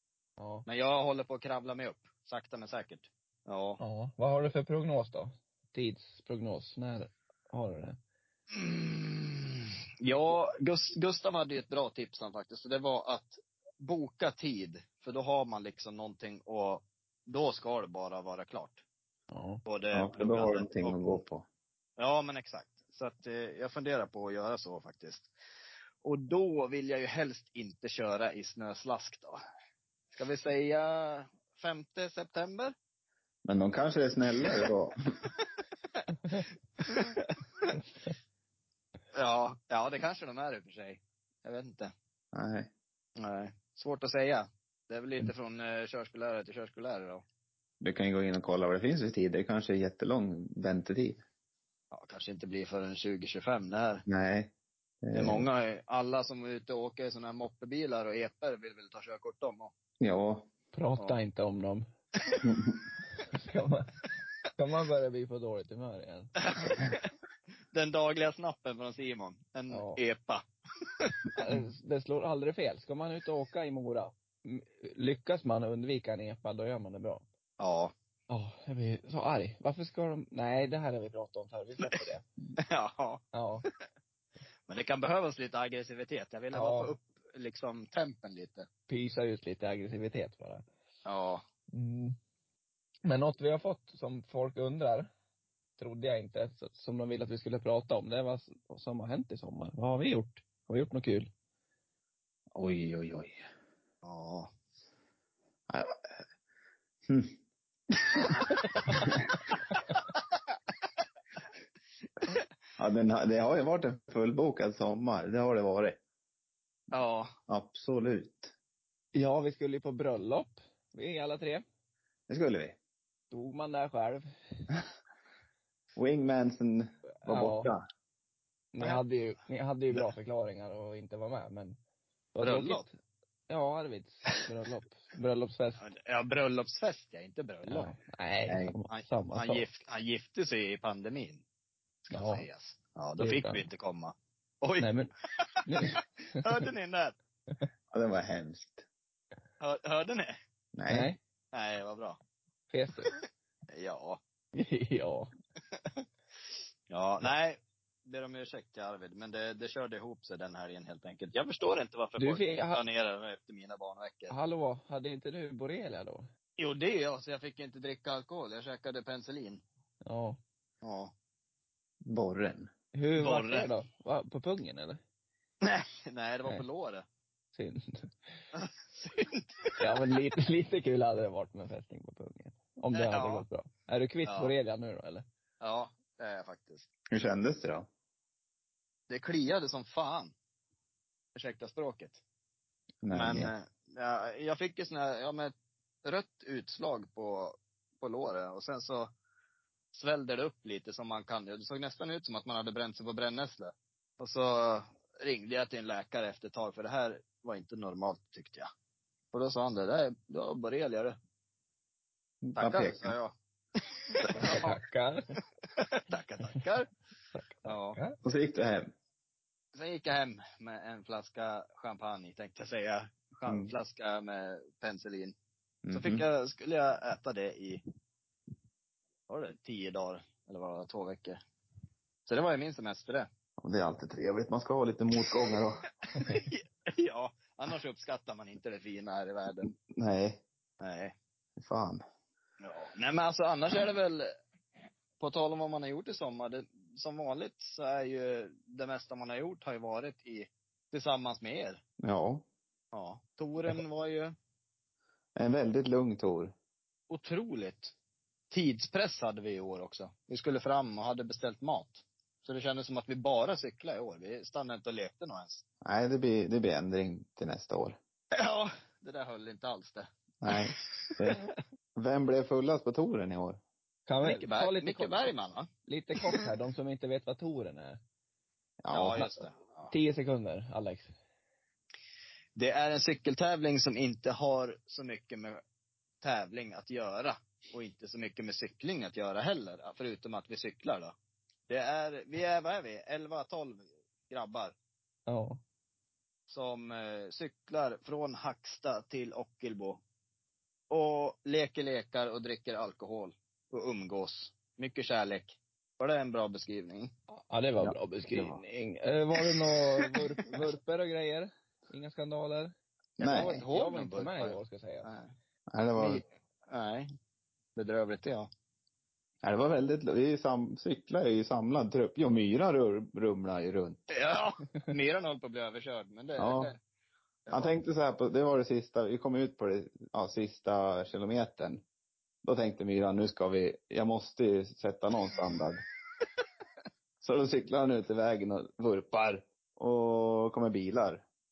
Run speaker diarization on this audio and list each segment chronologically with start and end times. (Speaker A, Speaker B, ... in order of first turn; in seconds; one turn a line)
Speaker A: 0.4-0.7
Speaker B: 0.7-3.8
Speaker A: 3.8-8.0
Speaker B: 8.5-18.8
Speaker A: 19.3-19.6
Speaker B: 19.6-21.1
Speaker C: 19.9-21.4
Speaker B: 22.0-25.3
Speaker B: 26.0-29.4
Speaker B: 30.1-32.7
Speaker C: 33.4-35.0
Speaker B: 36.3-37.8
Speaker B: 39.1-41.9
Speaker C: 42.3-42.7
Speaker B: 43.2-47.2
Speaker C: 47.8-51.2
Speaker B: 51.9-54.0
Speaker C: 54.1-54.5
Speaker C: 55.0-55.5
Speaker B: 55.1-59.7
Speaker C: 60.0-60.5
Speaker A: 60.7-61.8
Speaker C: 62.4-62.7
Speaker A: 63.3-63.9
Speaker A: 64.6-66.3
Speaker B: 66.4-67.1
Speaker B: 67.7-70.4
Speaker A: 69.7-70.0
Speaker B: 71.0-71.3
Speaker A: 71.4-77.2
Speaker B: 77.6-77.9
Speaker A: 78.3-82.2
Speaker B: 82.6-83.7
Speaker A: 83.3-83.7
Speaker B: 84.7-88.7
Speaker A: 86.5-86.9
Speaker A: 88.9-90.6
Speaker B: 91.0-91.4
Speaker A: 91.7-92.2
Speaker A: 93.0-95.1
Speaker A: 95.8-101.3
Speaker C: 102.5-103.4
Speaker B: 104.0-104.5
Speaker C: 105.7-106.1
Speaker C: 107.1-107.3
Speaker C: 109.0-109.3
Speaker C: 112.8-116.0
Speaker B: 116.9-117.3
Speaker C: 117.5-118.5
Speaker A: 119.1-121.6
Speaker C: 122.3-122.8
Speaker A: 123.3-124.3
Speaker C: 126.0-127.8
Speaker A: 127.2-127.7
Speaker A: 128.7-131.8
Speaker A: 132.3-132.9
Speaker B: 132.4-132.8
Speaker A: 133.5-135.9
Speaker B: 135.8-137.9
Speaker A: 137.7-139.7
Speaker C: 138.5-138.7
Speaker B: 138.9-141.4
Speaker B: 142.1-147.1
Speaker A: 142.1-142.5
Speaker A: 143.2-143.6
Speaker A: 144.8-145.1
Speaker A: 145.7-146.6
Speaker C: 147.9-148.8
Speaker B: 149.6-150.3
Speaker C: 150.7-151.1
Speaker A: 150.9-151.2
Speaker B: 151.5-152.2
Speaker A: 152.7-153.1
Speaker B: 153.1-154.2
Speaker A: 154.5-155.3
Speaker B: 156.9-164.3
Speaker A: 162.2-162.8
Speaker A: 164.3-166.2
Speaker B: 166.6-169.6
Speaker A: 170.1-170.4
Speaker B: 170.8-171.1
Speaker C: 172.0-172.7
Speaker A: 172.9-175.0
Speaker B: 173.2-173.7
Speaker B: 175.6-177.1
Speaker A: 177.5-178.1
Speaker B: 178.5-179.8
Speaker A: 179.8-185.2
Speaker B: 182.9-183.4
Speaker B: 184.2-184.5
Speaker B: 185.6-186.8
Speaker C: 187.1-187.9
Speaker B: 189.1-190.3
Speaker B: 191.3-192.2
Speaker C: 193.0-193.5
Speaker B: 193.1-199.1
Speaker B: 199.9-208.7
Speaker B: 209.3-211.1
Speaker C: 212.4-213.1
Speaker B: 212.6-214.8
Speaker A: 214.3-215.3
Speaker B: 215.8-216.9
Speaker A: 217.3-218.2
Speaker B: 217.6-218.0
Speaker C: 218.2-218.9
Speaker B: 219.7-225.3
Speaker C: 223.4-223.7
Speaker C: 225.8-226.2
Speaker B: 225.9-227.8
Speaker B: 229.3-231.4
Speaker B: 232.3-233.3
Speaker C: 233.6-235.8
Speaker B: 236.2-239.7
Speaker C: 239.7-240.4
Speaker B: 240.8-241.1
Speaker C: 241.6-242.0
Speaker B: 242.6-244.3
Speaker B: 245.2-251.8
Speaker C: 252.0-252.4
Speaker B: 252.9-254.3
Speaker C: 255.4-256.5
Speaker B: 257.1-257.9
Speaker B: 258.5-265.6
Speaker C: 265.8-268.0
Speaker B: 268.4-271.5
Speaker C: 270.4-271.4
Speaker C: 271.9-273.6
Speaker A: 274.1-275.3
Speaker B: 274.2-275.7
Speaker A: 275.9-278.0
Speaker C: 278.8-279.3
Speaker B: 278.9-279.9
Speaker A: 279.9-281.1
Speaker B: 282.6-285.6
Speaker B: 286.2-291.1
Speaker B: 291.7-294.7
Speaker A: 295.3-295.6
Speaker B: 296.5-300.0
Speaker B: 300.9-307.1
Speaker A: 307.3-312.7
Speaker C: 307.8-308.6
Speaker B: 313.2-315.3
Speaker C: 313.2-313.6
Speaker A: 313.2-315.1
Speaker C: 315.7-316.2
Speaker B: 316.0-317.1
Speaker B: 317.8-318.5
Speaker C: 319.4-324.0
Speaker B: 324.1-326.8
Speaker C: 326.4-326.7
Speaker B: 327.5-327.7
Speaker C: 327.5-331.8
Speaker C: 332.4-335.8
Speaker C: 337.2-341.2